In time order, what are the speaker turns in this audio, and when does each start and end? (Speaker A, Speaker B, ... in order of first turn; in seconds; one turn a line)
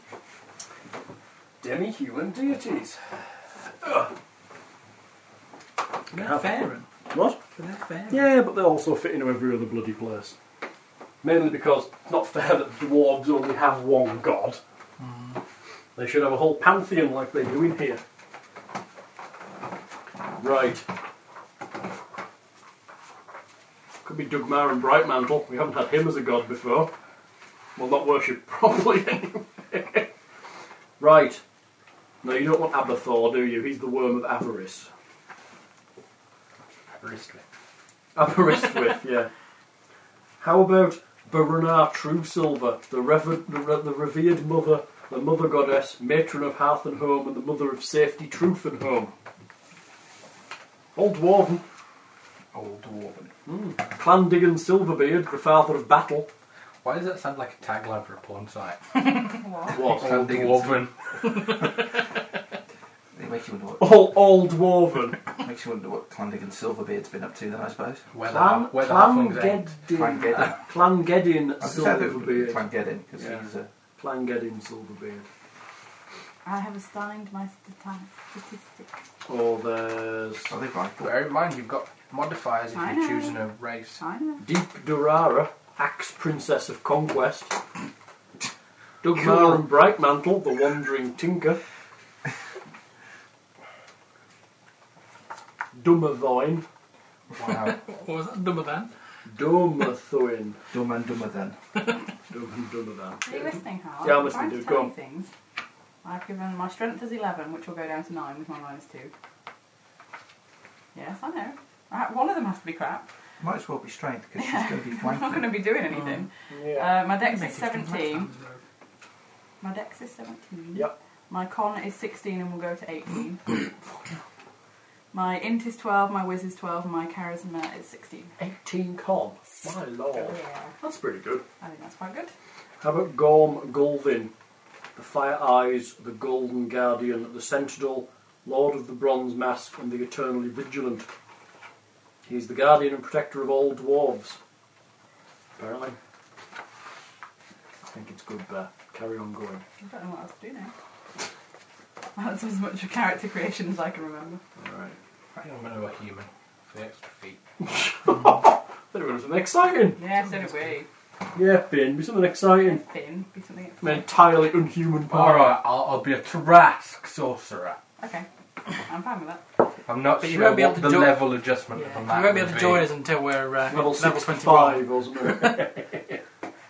Speaker A: 1.6-3.2
Speaker A: 3.8-4.1
Speaker A: 6.1-7.4
Speaker B: 6.1-6.9
Speaker B: 7.5-8.3
Speaker A: 8.1-10.3
Speaker A: 11.2-14.6
Speaker B: 15.0-15.4
Speaker A: 15.9-18.0
Speaker A: 20.4-20.9
Speaker A: 24.0-26.9
Speaker A: 27.8-30.1
Speaker A: 31.0-31.4
Speaker A: 32.2-34.9
Speaker C: 37.0-37.4
Speaker A: 38.1-39.3
Speaker A: 40.4-49.1
Speaker A: 50.9-51.6
Speaker D: 52.5-53.3
Speaker A: 53.5-56.3
Speaker C: 56.8-59.0
Speaker E: 59.3-59.8
Speaker A: 59.7-60.5
Speaker C: 59.7-61.0
Speaker D: 60.0-60.9
Speaker D: 63.1-64.1
Speaker A: 63.8-65.2
Speaker D: 65.4-68.1
Speaker C: 68.1-69.8
Speaker A: 68.2-72.6
Speaker D: 69.9-70.6
Speaker D: 71.6-73.7
Speaker A: 73.1-75.3
Speaker E: 76.4-78.9
Speaker A: 79.3-80.5
Speaker D: 80.5-81.2
Speaker C: 81.0-84.0
Speaker E: 82.7-83.4
Speaker E: 84.0-84.4
Speaker A: 84.4-87.6
Speaker A: 89.0-91.6
Speaker A: 95.7-96.6
Speaker B: 97.4-98.9
Speaker A: 99.2-100.6
Speaker D: 100.7-101.6
Speaker A: 102.3-104.9
Speaker E: 103.2-105.3
Speaker E: 106.0-109.1
Speaker E: 110.9-113.1
Speaker D: 113.4-115.7
Speaker E: 114.4-118.3
Speaker B: 115.9-116.3
Speaker A: 116.5-117.0
Speaker B: 117.1-118.6
Speaker E: 119.6-123.7
Speaker E: 125.1-128.3
Speaker A: 128.4-131.4
Speaker E: 130.1-130.8
Speaker E: 131.6-132.3
Speaker A: 132.8-134.3
Speaker A: 134.9-141.1
Speaker A: 142.2-144.4
Speaker A: 145.6-146.0
Speaker A: 147.9-149.6
Speaker E: 149.8-150.7
Speaker E: 152.2-154.4
Speaker A: 154.6-155.0
Speaker C: 155.3-157.4
Speaker A: 157.6-160.0
Speaker B: 158.2-158.4
Speaker E: 160.0-160.9
Speaker B: 160.2-160.7
Speaker A: 161.3-162.8
Speaker E: 162.5-164.1
Speaker A: 163.8-165.6
Speaker C: 165.1-167.8
Speaker E: 168.0-169.4
Speaker C: 169.8-172.9
Speaker B: 170.2-175.7
Speaker A: 173.6-176.0